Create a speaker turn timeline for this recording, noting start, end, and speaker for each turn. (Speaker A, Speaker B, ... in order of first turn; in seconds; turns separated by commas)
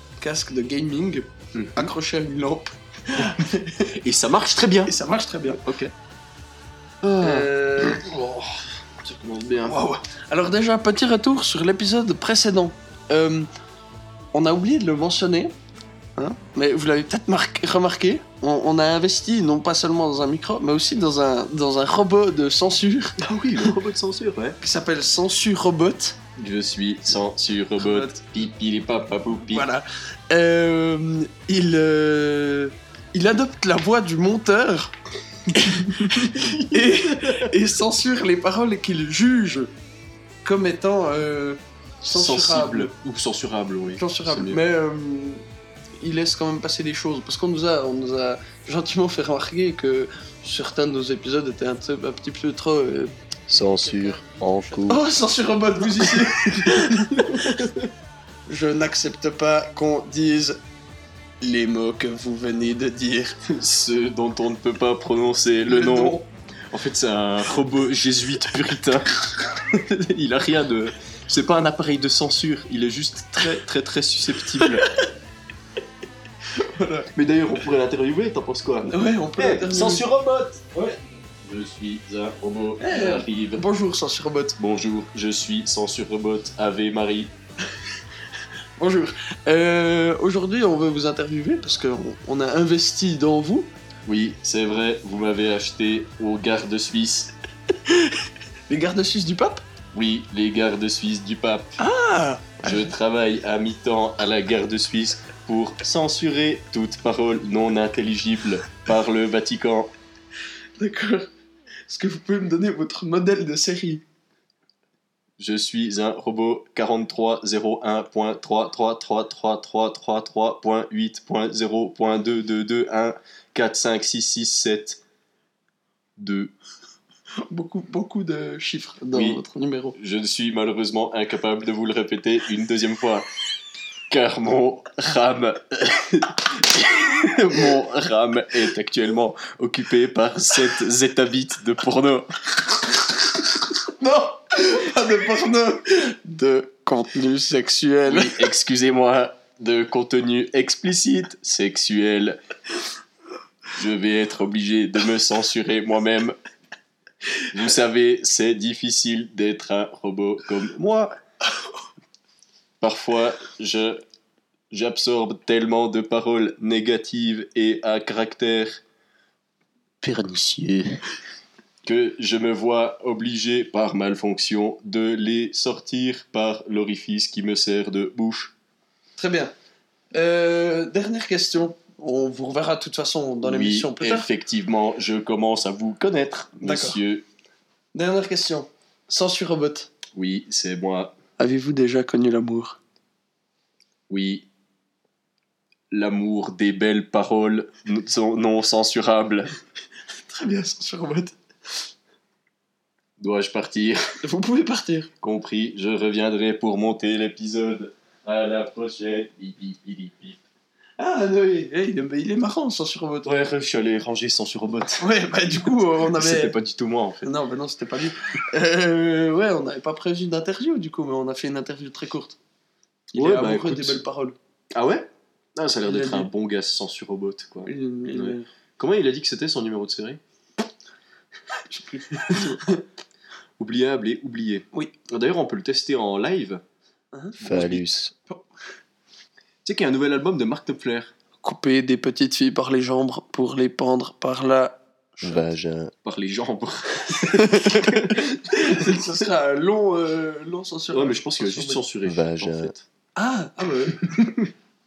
Speaker A: 0.2-3.9, Speaker B: 1.5-1.9, Speaker B: 3.2-4.9, Speaker A: 4.8-5.6, Speaker B: 5.6-5.9, Speaker B: 7.0-9.8, Speaker A: 7.2-8.0, Speaker A: 9.7-13.5, Speaker A: 14.3-15.5, Speaker A: 16.2-23.2, Speaker B: 23.2-24.6, Speaker A: 24.6-26.2, Speaker B: 26.4-29.7, Speaker A: 27.8-28.1, Speaker A: 29.5-34.9, Speaker A: 35.5-39.7, Speaker B: 35.6-37.5, Speaker A: 40.4-42.9, Speaker B: 42.1-44.6, Speaker A: 44.0-45.4, Speaker A: 46.0-57.6, Speaker C: 53.5-55.0, Speaker B: 56.4-57.9, Speaker A: 58.5-60.6, Speaker A: 61.4-63.4, Speaker B: 63.4-74.9, Speaker A: 65.7-66.2, Speaker A: 76.5-77.1, Speaker B: 77.1-83.6, Speaker A: 78.8-80.0, Speaker A: 82.8-84.6, Speaker B: 84.6-87.3, Speaker A: 88.8-93.7, Speaker B: 94.0-97.3, Speaker A: 97.9-98.1, Speaker A: 98.7-99.6, Speaker B: 99.9-101.8, Speaker A: 101.8-102.8, Speaker B: 102.6-109.9, Speaker A: 110.8-111.3, Speaker A: 111.9-114.0, Speaker B: 115.4-125.0, Speaker B: 126.2-126.5, Speaker A: 127.5-129.9, Speaker B: 129.1-129.4, Speaker B: 129.9-133.2, Speaker B: 134.1-142.6, Speaker A: 144.0-148.4, Speaker B: 148.1-152.4, Speaker B: 153.7-156.4, Speaker B: 157.5-161.2, Speaker B: 162.8-164.0, Speaker B: 164.7-168.8, Speaker B: 170.0-171.0, Speaker B: 171.8-178.5, Speaker A: 179.2-179.5, Speaker A: 180.1-184.3, Speaker B: 183.4-187.2, Speaker A: 186.6-187.0, Speaker A: 187.9-189.9, Speaker B: 190.1-191.1, Speaker A: 191.4-192.8, Speaker B: 194.1-194.5, Speaker B: 195.9-199.5, Speaker A: 200.2-201.3, Speaker B: 203.2-204.2, Speaker A: 204.2-205.1, Speaker B: 205.2-210.4, Speaker A: 211.0-213.3, Speaker B: 213.2-217.3, Speaker A: 215.0-216.5, Speaker A: 217.2-222.4, Speaker A: 223.1-224.3, Speaker B: 223.1-224.0, Speaker B: 224.7-230.2, Speaker A: 225.8-226.3, Speaker A: 227.7-228.5, Speaker A: 231.7-232.8, Speaker B: 232.2-232.6, Speaker B: 233.6-236.6, Speaker A: 237.1-237.4, Speaker B: 237.4-237.9, Speaker C: 237.4-238.1, Speaker B: 239.6-241.1, Speaker A: 241.4-244.8, Speaker C: 245.2-245.9, Speaker B: 246.0-249.2, Speaker A: 247.3-251.8, Speaker B: 250.9-252.8, Speaker C: 252.0-252.7, Speaker A: 253.2-254.0, Speaker B: 253.9-254.5